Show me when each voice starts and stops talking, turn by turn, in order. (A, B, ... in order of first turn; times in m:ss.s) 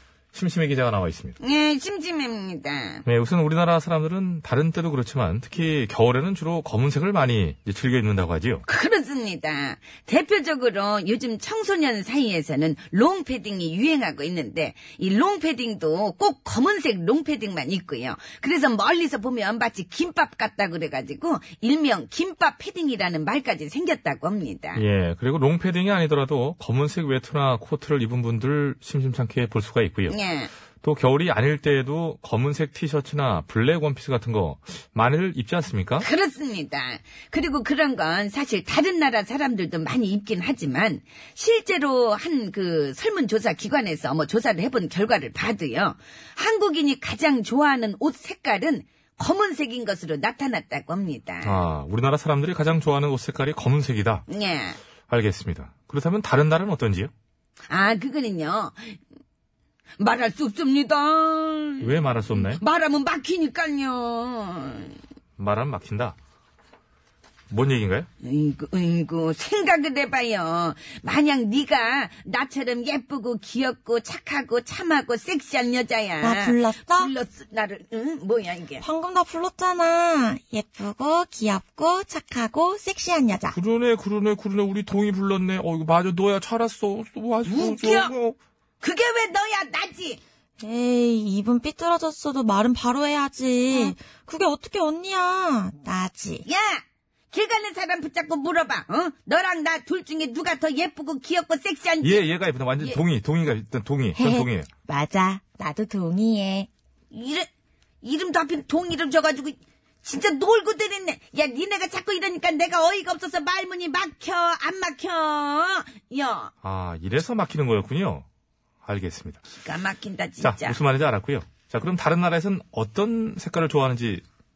0:00.3-0:01.4 A
0:01.4-0:03.0 B
0:03.0-0:08.6 A
0:08.7-0:24.8 B
0:24.8-0:30.2 A
0:30.1-0:30.5 B
0:30.8-0:36.1 A
0:36.0-0:51.6 B
0:51.4-0:54.2 A
0:54.3-0:54.8 B
0:55.1-0:57.1 A
0:57.7-0:59.0 B
1:00.0-1:05.0 B
1:01.8-1:02.6 A
1:05.4-1:06.2 A
1:07.5-1:08.1 A
1:08.2-1:18.8 B
1:16.2-1:17.1 C
1:18.8-1:23.6 C
1:23.5-1:28.4 A
1:27.4-1:28.1 B
1:28.8-1:30.2 B
1:30.6-1:36.4 C
1:36.5-1:42.3 B
1:42.0-1:44.7 A
1:44.2-1:46.7 C
1:47.1-1:47.5 B
1:48.0-1:56.5 B
1:56.6-1:58.3 A
1:58.8-1:59.4 A
1:59.6-2:00.8 B
2:00.4-2:04.2 A